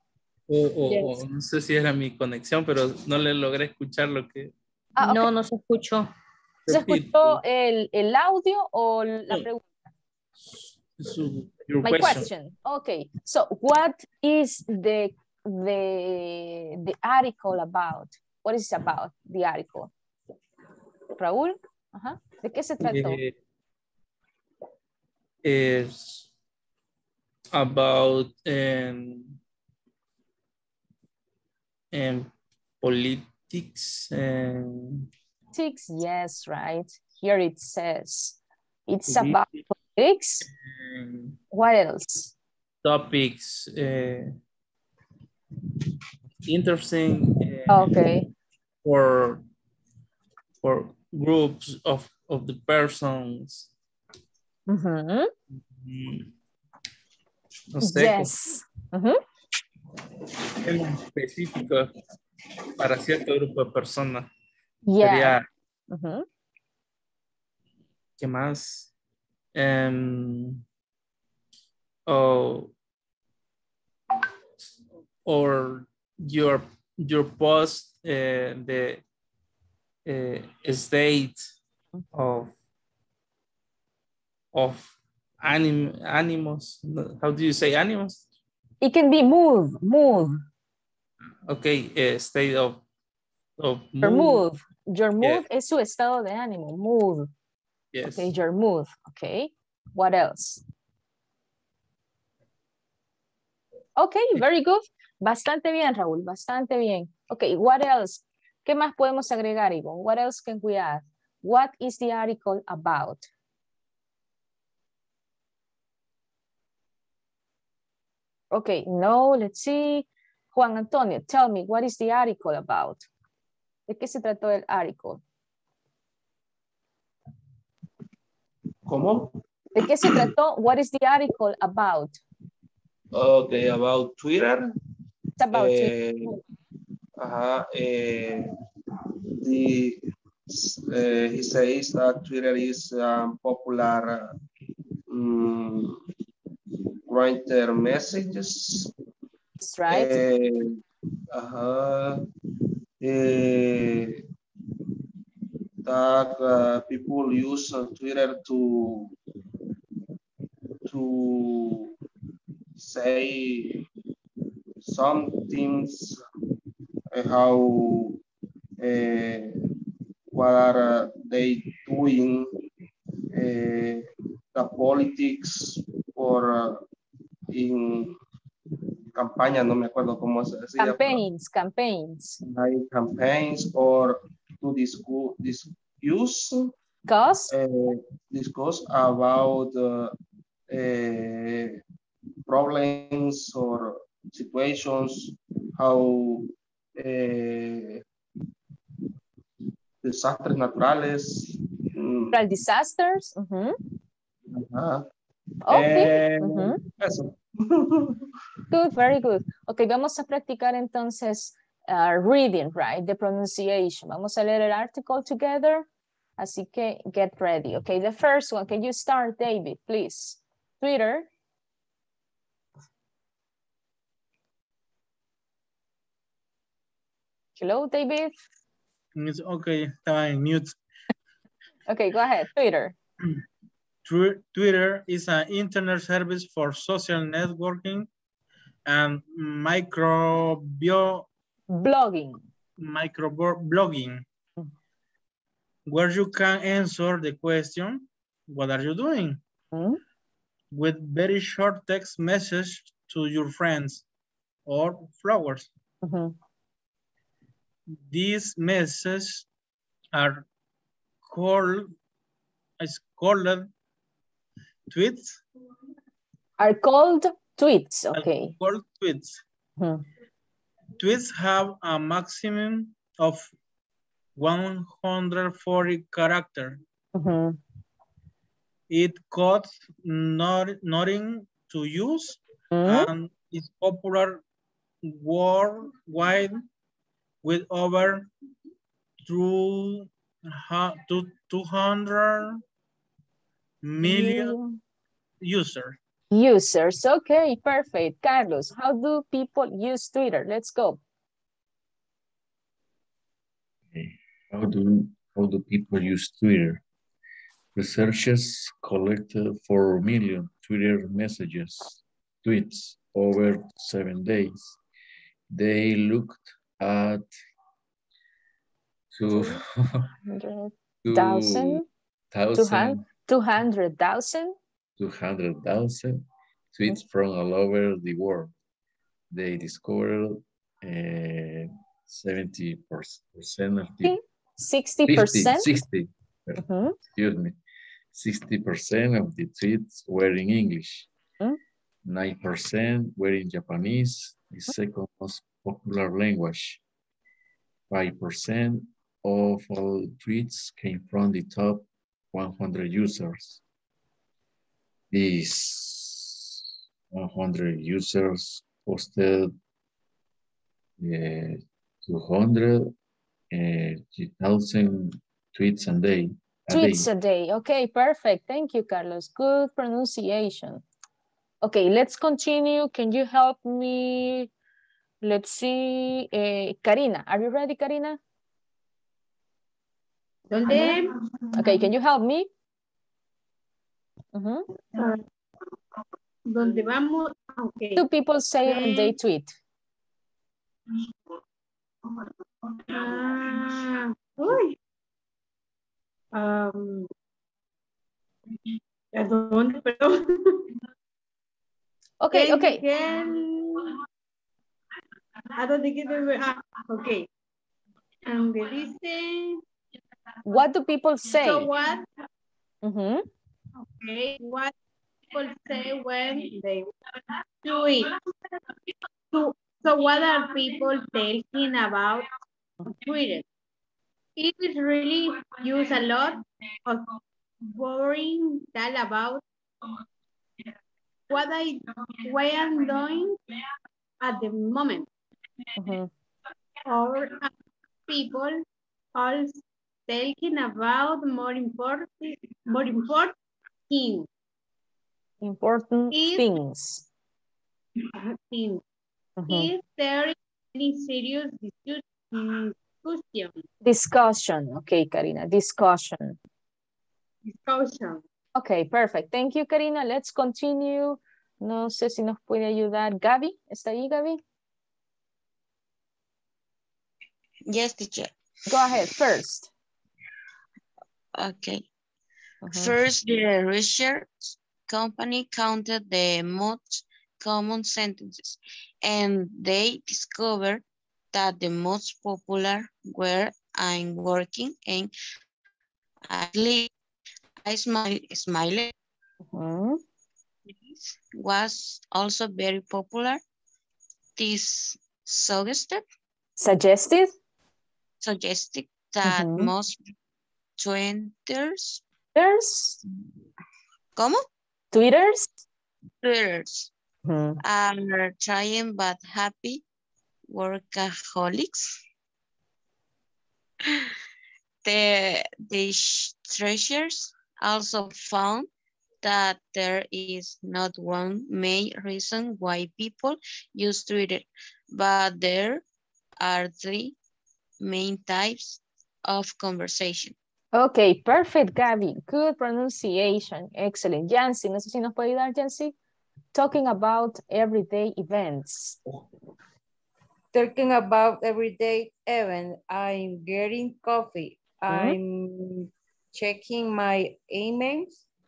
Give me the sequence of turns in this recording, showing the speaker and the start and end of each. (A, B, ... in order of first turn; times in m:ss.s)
0:00.5-0:04.5 A
0:00.9-0:01.2 B
0:05.0-0:05.3 C
0:05.0-0:06.1 B
0:06.7-0:07.4 A
0:06.7-0:09.6 C
0:10.4-0:12.3 A
0:11.8-0:19.9 C
0:21.2-0:23.2 C
0:22.8-0:23.3 A
0:25.4-0:26.3 A
0:27.5-0:29.4 A
0:31.9-0:32.3 A
0:32.8-0:35.1 A
0:35.5-0:40.4 C
0:39.1-0:39.6 A
0:40.8-0:41.3 A
0:41.5-0:42.3 C
0:42.8-0:44.3 A
0:46.4-0:48.0 A
0:47.7-0:48.2 C
0:48.8-0:49.4 A
0:50.6-0:53.7 A
0:54.7-0:55.3 C
0:55.7-0:56.3 A
0:57.7-0:58.3 A
0:57.8-0:59.2 C
1:00.6-1:01.9 A
1:02.8-1:04.3 A
1:04.8-1:06.2 C
1:05.0-1:05.4 A
1:08.2-1:08.9 A
1:09.5-1:10.6 A
1:12.0-1:12.7 A
1:15.2-1:19.0 A
1:20.0-1:21.5 A
1:22.1-1:22.5 A
1:24.5-1:28.2 A
1:28.8-1:30.4 C
1:31.4-1:32.8 A
1:33.6-1:34.4 A
1:34.0-1:37.3 C
1:37.9-1:38.3 A
1:38.2-1:40.6 C
1:44.0-1:53.2 C
1:58.5-2:03.0 C
2:03.9-2:05.2 C
2:08.8-2:10.3 D
2:09.8-2:12.2 C
2:13.1-2:14.7 D
2:15.4-2:15.9 C
2:15.5-2:16.4 D
2:17.2-2:18.5 D
2:19.4-2:24.3 D
2:25.1-2:26.0 D
2:27.0-2:28.9 D
2:29.6-2:30.2 C
2:29.9-2:32.2 D
2:33.0-2:34.2 D
2:35.8-2:39.1 D
2:40.8-2:42.0 D
2:42.8-2:43.8 D
2:44.8-2:46.2 D
2:47.1-2:48.2 D
2:48.8-2:49.6 D
2:50.3-2:52.5 D
2:53.3-2:56.8 D
2:57.5-2:58.2 D
2:59.1-3:01.2 D
3:00.8-3:02.4 C
3:02.4-3:06.6 D
3:07.1-3:07.5 C
3:07.5-3:10.1 D
3:10.7-3:11.8 D
3:12.5-3:18.0 D
3:20.0-3:22.4 D
3:22.3-3:23.8 C
3:24.5-3:25.0 D
3:25.6-3:26.8 C
3:25.7-3:28.2 D
3:28.7-3:35.9 C
3:36.4-3:41.3 C
3:47.6-3:48.3 C
3:49.2-3:50.8 E
3:51.9-3:52.9 C
3:54.0-3:58.1 E
3:58.9-4:01.3 E
4:01.7-4:02.4 C
4:02.8-4:04.2 E
4:05.9-4:09.4 E
4:09.7-4:10.0 C
4:10.7-4:14.0 E
4:14.7-4:15.7 E
4:16.0-4:16.3 C
4:18.0-4:19.4 E
4:20.1-4:20.4 E
4:21.3-4:21.9 E
4:22.8-4:23.7 E
4:24.9-4:25.4 E
4:26.6-4:28.5 C
4:28.1-4:29.4 E
4:29.8-4:30.0 C
4:31.0-4:33.5 E
4:34.4-4:36.8 E
4:37.1-4:37.6 C
4:38.9-4:44.4 E
4:42.7-4:43.1 C
4:45.0-4:46.6 E
4:47.4-4:48.3 E
4:49.2-4:52.6 E
4:53.8-4:54.6 E
4:54.0-4:54.8 C
4:55.4-4:56.0 E
4:56.3-5:01.0 C
5:03.9-5:06.8 F
5:07.7-5:14.8 F
5:15.5-5:17.2 F
5:19.1-5:20.1 F
5:20.2-5:21.8 C
5:21.0-5:23.1 F
5:22.5-5:24.5 C
5:25.0-5:26.2 F
5:26.7-5:28.5 F
5:29.3-5:34.2 F
5:34.0-5:35.7 C
5:35.0-5:36.6 F
5:36.6-5:37.0 C
5:37.1-5:37.6 F
5:38.1-5:41.1 F
5:42.0-5:46.8 F
5:47.9-5:53.6 F
5:55.1-5:56.6 F
5:57.1-5:59.5 F
6:01.0-6:02.9 F
6:03.5-6:07.1 F
6:06.7-6:10.8 C
6:11.6-6:14.5 C
6:15.2-6:18.2 C
6:20.5-6:21.4 G
6:21.5-6:22.5 C
6:24.3-6:24.6 C
6:26.5-6:28.0 G
6:28.0-6:29.6 C
6:28.6-6:29.1 G
6:32.0-6:34.8 G
6:36.3-6:37.1 G
6:38.6-6:40.7 G
6:42.2-6:42.8 C
6:42.3-6:44.0 G
6:45.4-6:47.2 G
6:48.2-6:49.6 G
6:50.4-6:51.7 C
6:51.3-6:52.1 G
6:52.8-6:53.2 C
6:53.8-6:54.7 G
6:55.3-6:58.7 G
6:59.3-7:02.3 G
7:02.9-7:03.4 G
7:04.4-7:09.4 G
7:11.3-7:13.4 G
7:14.2-7:15.1 G
7:15.8-7:16.1 C
7:16.9-7:17.5 G
7:18.1-7:18.6 G
7:19.1-7:23.3 G
7:23.9-7:24.3 G
7:25.4-7:27.1 C
7:26.1-7:26.4 G
7:28.0-7:28.8 G
7:29.4-7:29.7 C
7:29.5-7:33.6 G
7:33.8-7:36.4 C
7:37.4-7:38.2 G
7:38.6-7:44.4 C
7:47.7-7:48.9 H
7:48.7-7:49.7 C
7:51.3-7:51.8 H
7:52.6-7:52.9 C
7:52.7-8:05.1 H
8:06.3-8:06.9 H
8:07.6-8:08.9 H
8:09.5-8:10.0 C
8:11.3-8:13.4 H
8:14.4-8:16.0 H
8:16.6-8:17.3 C
8:18.2-8:20.1 H
8:19.2-8:19.7 C
8:20.8-8:22.0 H
8:22.3-8:23.0 C
8:24.2-8:24.4 H
8:24.9-8:25.6 C
8:26.2-8:26.9 H
8:27.2-8:27.6 C
8:27.6-8:29.8 H
8:30.5-8:32.0 H
8:33.8-8:34.1 H
8:34.8-8:38.7 H
8:39.2-8:45.8 H
8:46.4-8:47.1 H
8:47.8-8:50.3 H
8:50.7-8:55.9 C
8:56.5-8:59.0 C
9:00.5-9:08.2 B
9:04.9-9:05.1 C